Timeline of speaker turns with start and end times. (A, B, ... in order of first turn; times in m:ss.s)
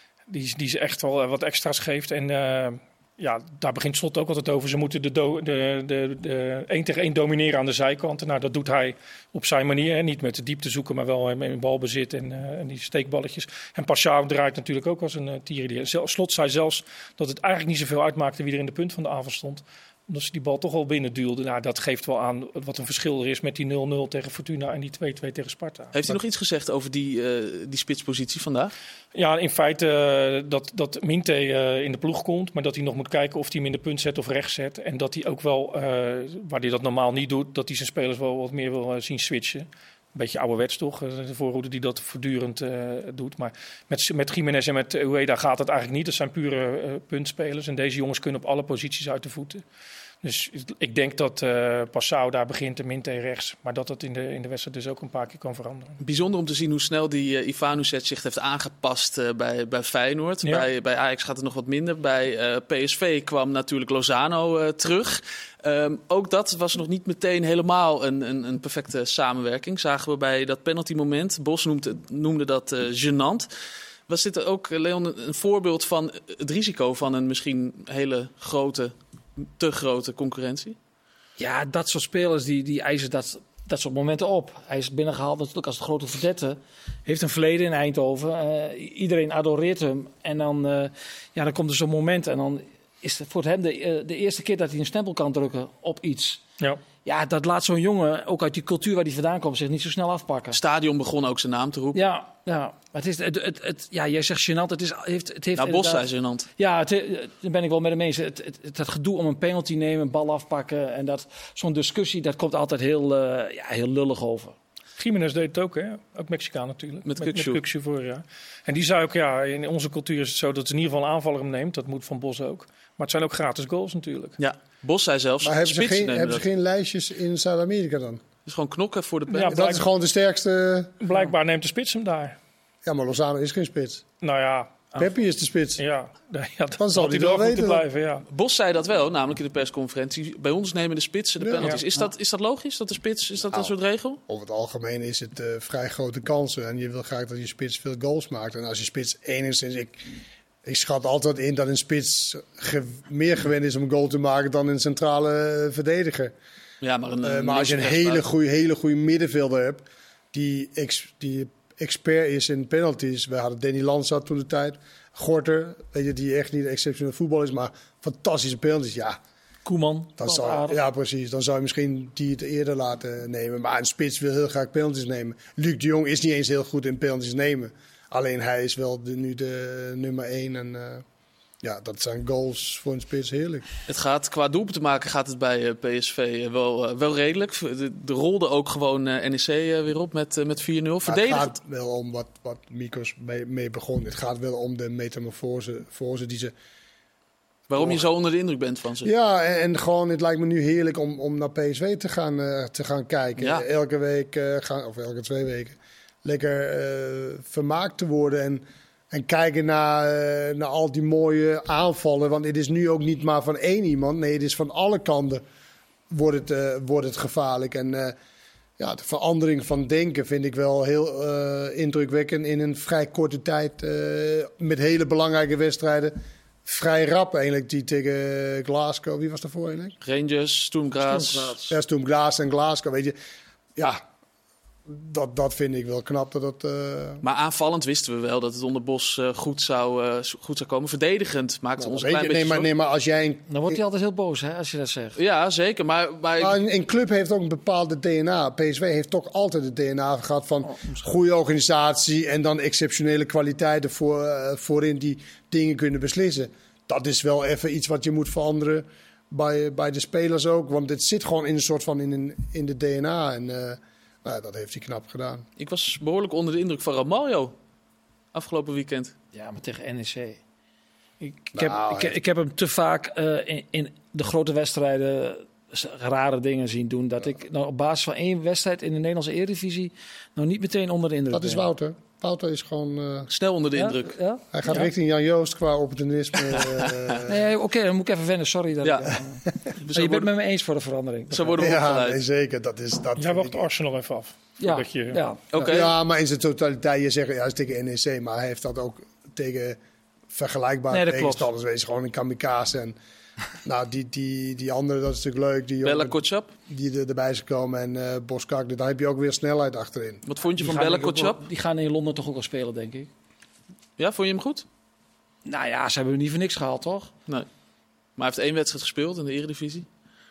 0:00.3-0:25.9 A
0:25.9-0:28.7 B
0:29.1-0:49.6 A
0:50.2-0:56.0 A
0:56.0-1:13.5 B
1:14.1-1:20.8 B
1:21.4-1:36.4 C
1:37.0-1:40.6 C
1:40.5-1:42.0 B
1:41.9-1:46.0 C
1:45.6-1:46.5 B
1:46.6-1:54.5 C
1:55.0-2:04.4 A
1:57.0-1:57.6 B
2:04.4-2:06.4 B
2:05.4-2:08.2 D
2:08.4-2:09.6 B
2:09.3-2:09.8 A
2:09.5-2:11.0 D
2:11.0-2:12.4 A
2:12.8-2:14.0 D
2:14.2-2:15.1 A
2:15.0-2:15.8 D
2:15.8-2:18.2 A
2:16.8-2:17.8 D
2:18.3-2:24.2 B
2:21.4-2:21.8 D
2:24.3-2:30.1 D
2:30.6-2:36.3 D
2:36.8-2:38.2 B
2:37.2-2:49.2 D
2:49.6-2:50.8 C
2:50.2-3:01.0 D
3:01.6-3:03.7 D
3:03.9-3:11.5 B
3:11.0-3:16.5 D
3:17.7-3:19.1 B
3:19.0-3:35.4 D
3:23.4-3:23.6 B
3:36.1-3:38.1 D
3:38.8-3:49.9 D
3:50.0-3:51.6 B
3:51.0-3:51.7 C
3:51.7-3:53.1 D
3:53.8-3:54.0 D
3:54.9-3:57.2 D
3:57.2-4:02.7 B
4:01.8-4:03.8 D
4:03.5-4:05.2 C
4:05.2-4:06.6 B
4:06.4-4:25.4 D
4:25.6-4:27.5 B
4:28.3-4:29.1 B
4:29.3-4:30.4 C
4:31.2-4:41.7 C
4:31.5-4:32.2 D
4:41.3-4:43.3 D
4:43.3-4:44.2 B
4:43.8-4:44.4 C
4:44.5-4:47.4 D
4:46.5-4:47.2 B
4:47.2-4:49.4 C
4:48.8-4:49.1 B
4:49.7-4:50.3 B
4:49.9-4:51.6 C
4:51.3-4:52.2 B
4:51.6-4:53.6 D
4:53.2-4:55.2 A
4:54.6-4:55.4 C
4:55.5-4:55.9 B
4:55.6-4:59.8 D
5:00.3-5:03.0 D
5:00.9-5:01.5 C
5:03.6-5:06.2 D
5:05.8-5:06.5 B
5:06.7-5:10.2 D
5:10.2-5:11.4 B
5:10.6-5:13.1 C
5:14.0-5:14.6 B
5:15.4-5:17.1 C
5:18.2-5:19.8 B